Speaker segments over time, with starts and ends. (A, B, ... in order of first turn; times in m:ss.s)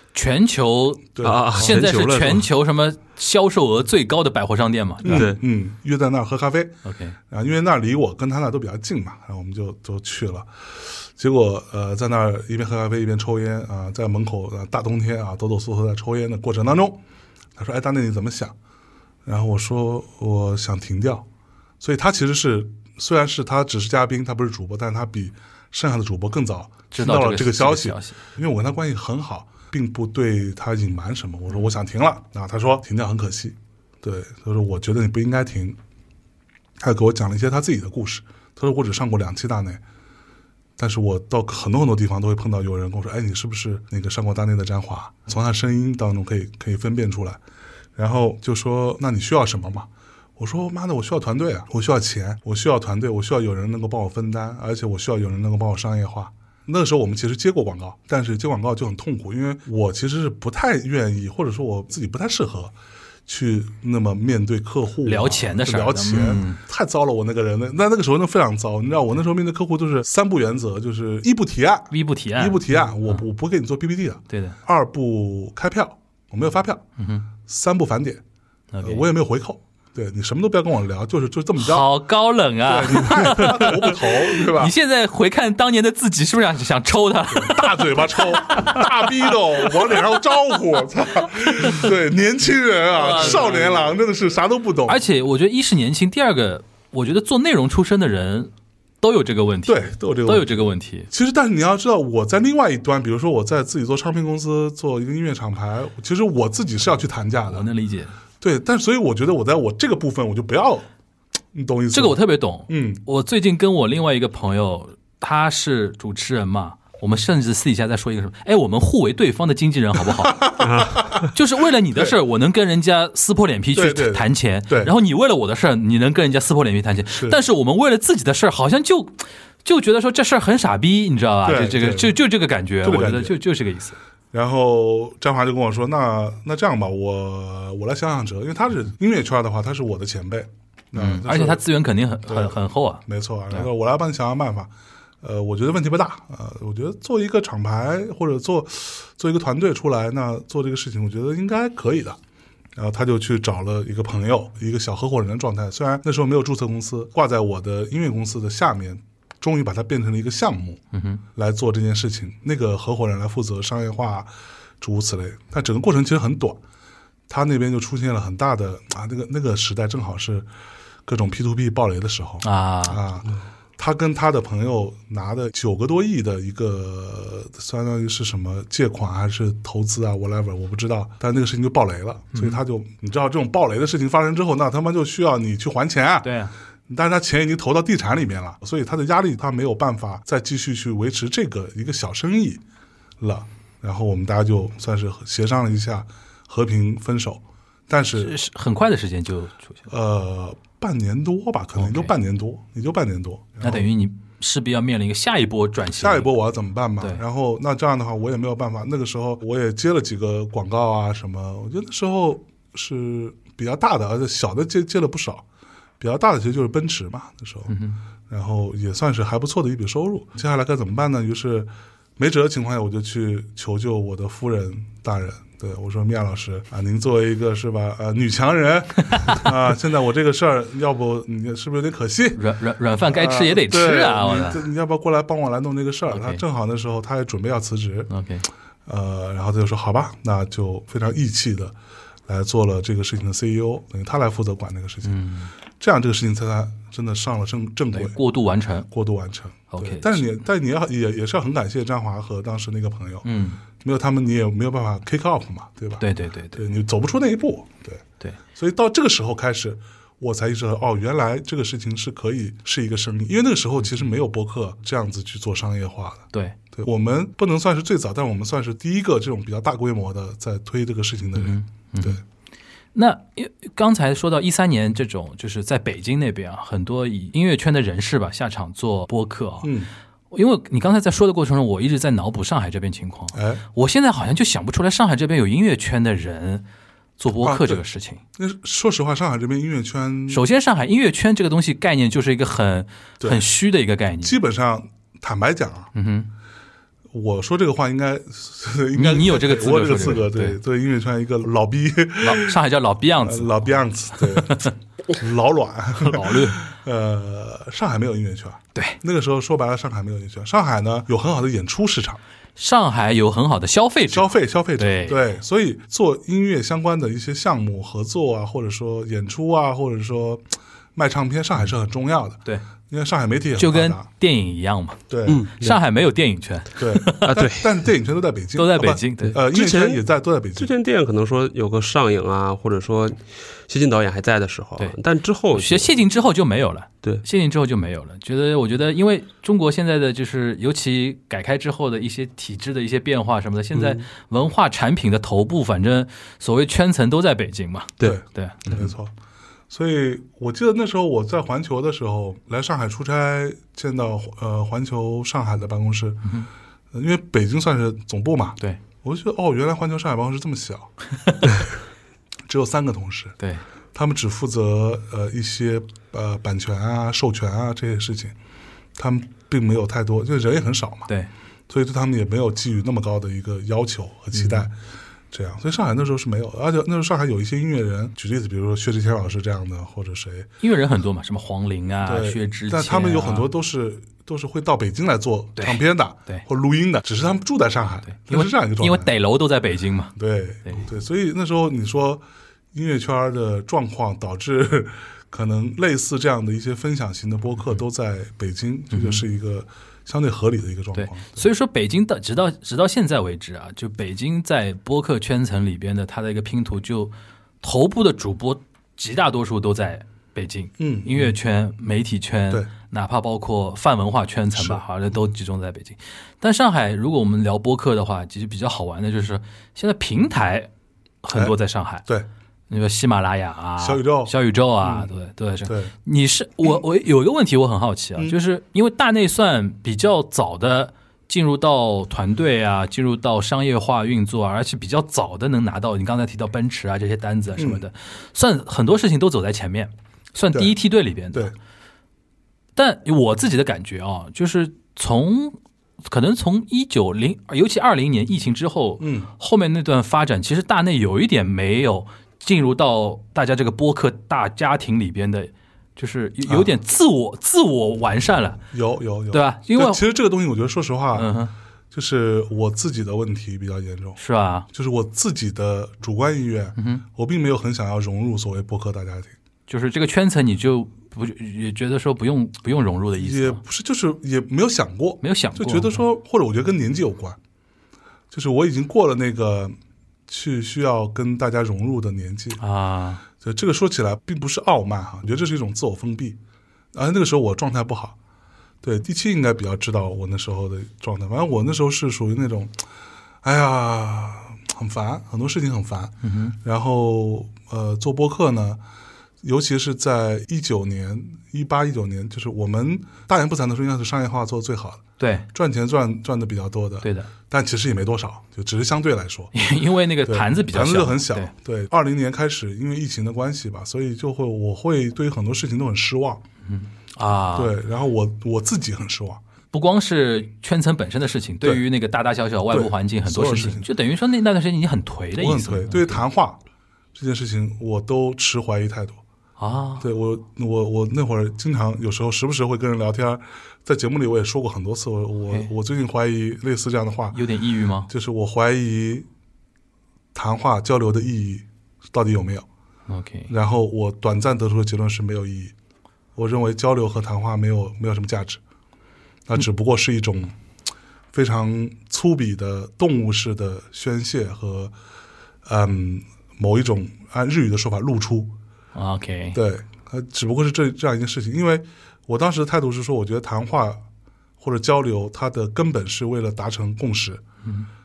0:00.1-0:05.2 A
0:01.2-0:01.8 B
0:01.2-0:02.5 C
0:05.0-0:17.0 B
0:05.1-0:05.4 C
0:06.8-0:07.2 A
0:17.6-0:18.6 B
0:19.2-0:21.3 B
0:21.8-0:35.8 B
0:26.9-0:28.2 A
0:36.8-0:39.8 B
0:40.8-0:47.4 B
0:48.0-1:02.7 B
1:03.3-1:18.2 B
1:05.0-1:06.6 A
1:11.9-1:13.2 A
1:14.3-1:14.6 A
1:17.0-1:17.3 A
1:18.7-1:19.1 A
1:18.8-1:21.9 B
1:21.6-1:28.9 A
1:22.6-1:24.7 B
1:27.3-1:35.0 B
1:31.3-1:31.8 A
1:32.9-1:33.8 A
1:34.9-1:41.1 A
1:39.7-1:47.7 B
1:47.5-1:48.2 A
1:48.4-1:50.9 B
1:51.5-1:53.0 B
1:51.9-2:00.5 A
2:00.2-2:01.2 B
2:00.6-2:01.3 C
2:01.3-2:14.0 A
2:03.7-2:04.9 B
2:07.1-2:07.4 B
2:11.4-2:12.2 B
2:12.8-2:13.4 B
2:14.3-2:21.6 B
2:21.0-2:23.7 A
2:22.3-2:24.7 B
2:25.2-2:32.2 B
2:32.8-2:40.8 B
2:40.9-2:41.2 A
2:41.3-2:46.6 B
2:47.3-2:50.5 B
2:51.1-3:06.3 B
2:52.4-2:53.0 A
3:02.3-3:02.6 A
3:06.2-3:06.6 A
3:06.9-3:12.6 B
3:13.2-3:18.4 B
3:18.2-3:19.8 A
3:19.9-3:23.9 B
3:21.8-3:22.1 A
3:23.6-3:26.3 A
3:25.9-3:35.4 B
3:36.0-3:52.4 B
3:37.7-3:38.0 A
3:52.4-3:54.7 A
3:53.1-3:58.1 B
3:56.1-3:56.4 A
3:58.1-3:58.5 A
3:58.9-4:01.8 B
4:02.3-4:05.2 B
4:05.0-4:05.5 A
4:05.8-4:08.2 B
4:07.9-4:08.9 A
4:08.9-4:18.0 B
4:09.7-4:10.2 A
4:13.2-4:13.6 A
4:16.0-4:16.6 A
4:18.6-4:32.2 B
4:31.4-4:32.2 A
4:33.0-4:39.7 A
4:39.6-4:39.9 B
4:40.3-4:46.6 A
4:43.3-4:43.6 B
4:47.2-4:48.2 A
4:47.4-4:47.8 B
4:48.4-4:50.4 B
4:50.3-4:54.4 A
4:54.2-4:55.9 B
4:56.0-4:56.3 A
4:57.1-5:02.6 B
4:58.9-5:00.6 A
5:02.2-5:04.7 A
5:03.2-5:12.2 B
5:06.0-5:06.6 A
5:12.6-5:15.3 A
5:14.1-5:20.4 B
5:21.0-5:24.1 B
5:23.6-5:27.3 A
5:25.1-5:25.4 B
5:25.3-5:25.8 C
5:26.8-5:30.7 B
5:27.2-5:27.8 C
5:28.6-5:29.3 A
5:29.2-5:30.0 C
5:30.6-5:35.9 C
5:35.5-5:48.9 A
5:43.7-5:44.0 C
5:48.0-5:49.1 B
5:49.7-5:56.3 B
5:56.9-6:00.9 B
6:01.2-6:01.5 A
6:02.5-6:03.4 B
6:03.4-6:03.6 A
6:03.9-6:08.3 B
6:09.0-6:11.1 B
6:11.7-6:14.8 B
6:14.3-6:14.7 A
6:15.3-6:20.5 B
6:20.6-6:23.5 A
6:22.0-6:29.1 B
6:25.6-6:26.4 A
6:28.1-6:30.2 A
6:30.2-6:41.5 B
6:38.9-6:39.2 A
6:41.0-7:00.7 A
6:50.8-6:51.4 B
6:54.6-6:54.8 B
7:01.2-7:02.1 A
7:01.3-7:02.3 B
7:02.7-7:21.5 A
7:03.8-7:05.1 B
7:05.6-7:05.9 B
7:17.6-7:17.9 B
7:22.8-7:38.6 A
7:29.0-7:29.3 B
7:38.7-7:41.3 B
7:39.3-7:40.0 A
7:41.2-7:41.5 A
7:41.9-7:44.2 B
7:44.2-7:44.7 A
7:44.7-7:49.4 B
7:46.8-7:47.0 A
7:49.7-7:53.6 A
7:53.2-7:57.4 B
7:55.2-7:56.0 A
7:58.3-7:59.8 B
8:00.3-8:02.6 B
8:02.6-8:03.2 A
8:03.4-8:06.4 B
8:06.9-8:08.2 B
8:08.8-8:12.7 B
8:13.4-8:18.8 B
8:16.2-8:16.6 A
8:19.4-8:29.5 B
8:25.2-8:25.5 A
8:27.0-8:27.3 A
8:29.5-8:31.5 A
8:30.2-8:36.4 B
8:36.7-8:37.7 A
8:37.5-8:39.4 B
8:39.7-8:46.2 A
8:42.7-8:43.9 B
8:45.4-8:46.6 B
8:47.2-8:49.2 B
8:49.6-8:50.1 A
8:50.0-8:57.4 B
8:57.3-8:58.1 A
8:58.1-8:59.3 B
9:00.3-9:02.7 B
9:03.1-9:03.5 A
9:03.5-9:05.7 B
9:06.4-9:08.6 B
9:09.5-9:10.6 B
9:11.3-9:14.9 B
9:15.6-9:18.5 B
9:19.0-9:19.6 A
9:19.5-9:24.0 B
9:24.6-9:27.4 B